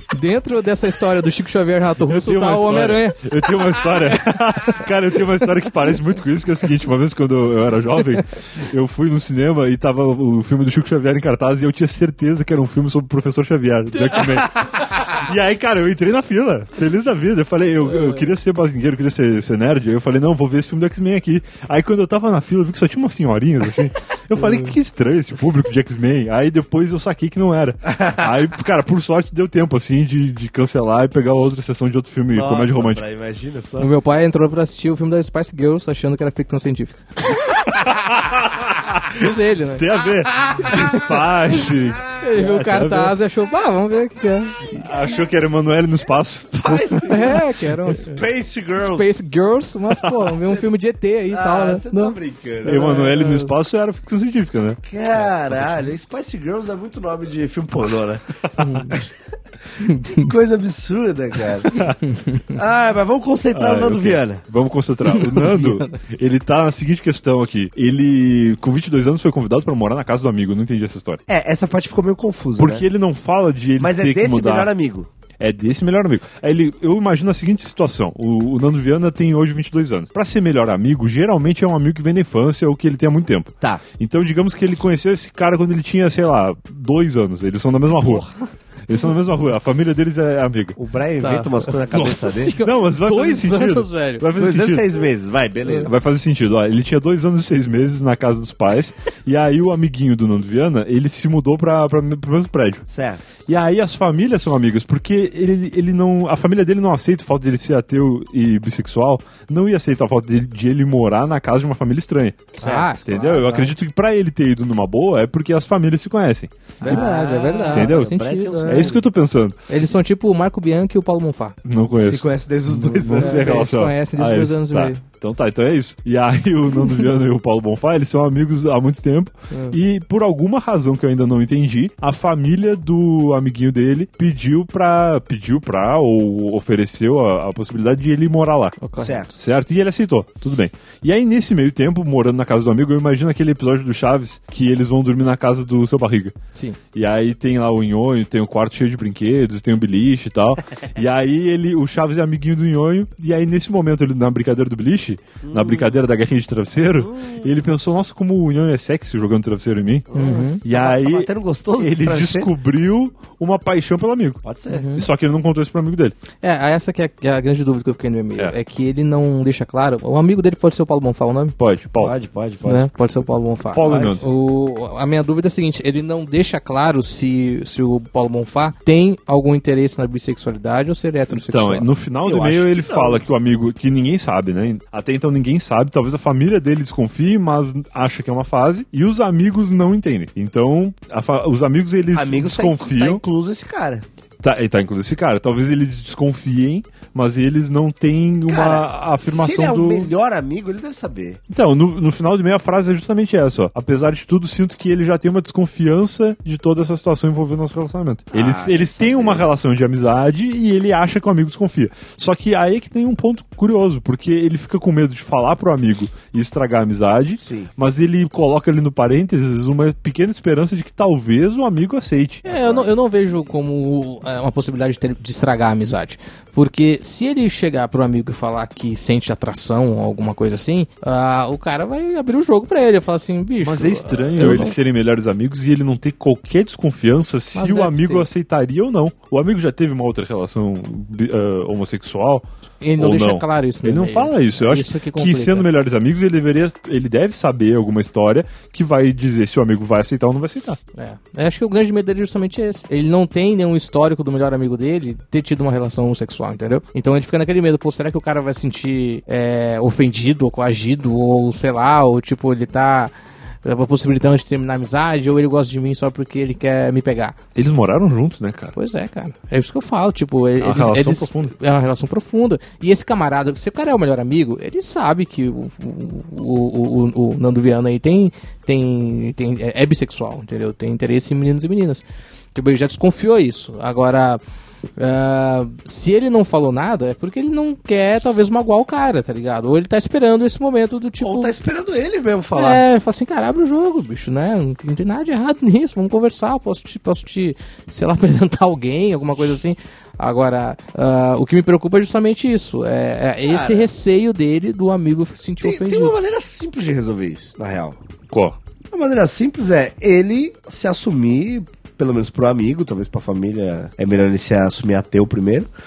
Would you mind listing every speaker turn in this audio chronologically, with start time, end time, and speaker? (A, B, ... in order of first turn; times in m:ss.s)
0:00.1-0:03.5 A
0:02.0-0:33.0 B
0:32.3-0:33.9 C
0:33.8-0:37.0 A
0:37.7-0:43.1 B
0:39.1-0:39.8 A
0:40.6-0:40.9 A
0:42.1-0:44.7 A
0:44.7-0:47.4 B
0:46.5-0:49.1 C
0:47.0-0:48.2 A
0:48.8-0:53.5 A
0:49.9-0:50.3 B
0:50.4-0:50.7 C
0:51.3-0:53.0 C
0:52.6-0:55.9 B
0:54.9-0:58.2 C
0:58.6-0:59.1 A
0:59.8-1:00.2 A
1:00.0-1:01.7 C
1:01.7-1:02.0 B
1:02.5-1:04.4 C
1:03.5-1:11.2 B
1:05.1-1:05.7 A
1:11.3-1:12.8 C
1:12.6-1:14.7 B
1:13.8-1:15.1 C
1:15.4-1:28.3 B
1:28.9-1:30.8 B
1:30.8-1:32.6 C
1:31.2-1:34.3 A
1:31.9-1:35.0 B
1:34.3-1:35.9 C
1:35.7-1:42.8 B
1:42.9-1:43.3 C
1:43.4-1:57.0 B
1:52.6-1:53.7 A
1:52.6-1:52.9 C
1:56.8-1:58.9 A
1:56.8-1:59.0 C
1:57.7-1:59.6 B
1:59.7-2:01.6 A
2:01.6-2:18.8 B
2:02.0-2:03.7 C
2:03.1-2:05.0 A
2:09.5-2:09.8 A
2:18.8-2:19.3 A
2:19.0-2:19.3 C
2:19.4-2:26.3 B
2:26.9-2:40.1 B
2:35.4-2:36.0 C
2:37.0-2:37.5 C
2:40.1-2:42.5 C
2:40.1-2:40.6 A
2:40.6-2:44.4 B
2:44.4-2:44.9 C
2:44.7-2:45.1 A
2:44.9-2:46.2 B
2:46.4-2:51.6 A
2:51.6-2:52.1 B
2:52.0-2:52.9 C
2:52.6-3:01.9 A
2:53.7-2:54.2 B
2:53.8-2:54.2 C
3:01.3-3:13.2 B
3:02.2-3:03.3 C
3:12.1-3:14.0 C
3:14.4-3:20.1 B
3:18.5-3:21.4 C
3:21.5-3:42.4 B
3:28.3-3:29.5 C
3:37.4-3:37.7 C
3:42.4-3:42.9 C
3:42.4-3:54.8 A
3:53.6-4:02.4 B
3:57.5-3:58.3 A
4:02.8-4:05.7 A
4:03.0-4:10.8 B
4:10.9-4:27.4 A
4:27.5-4:28.7 B
4:28.7-4:42.0 A
4:30.6-4:31.5 B
4:42.5-4:44.4 A
4:45.0-4:51.5 A
4:51.2-4:52.8 C
4:52.5-5:06.1 A
5:03.4-5:03.9 C
5:05.6-5:08.0 C
5:08.3-5:08.6 B
5:08.9-5:15.7 C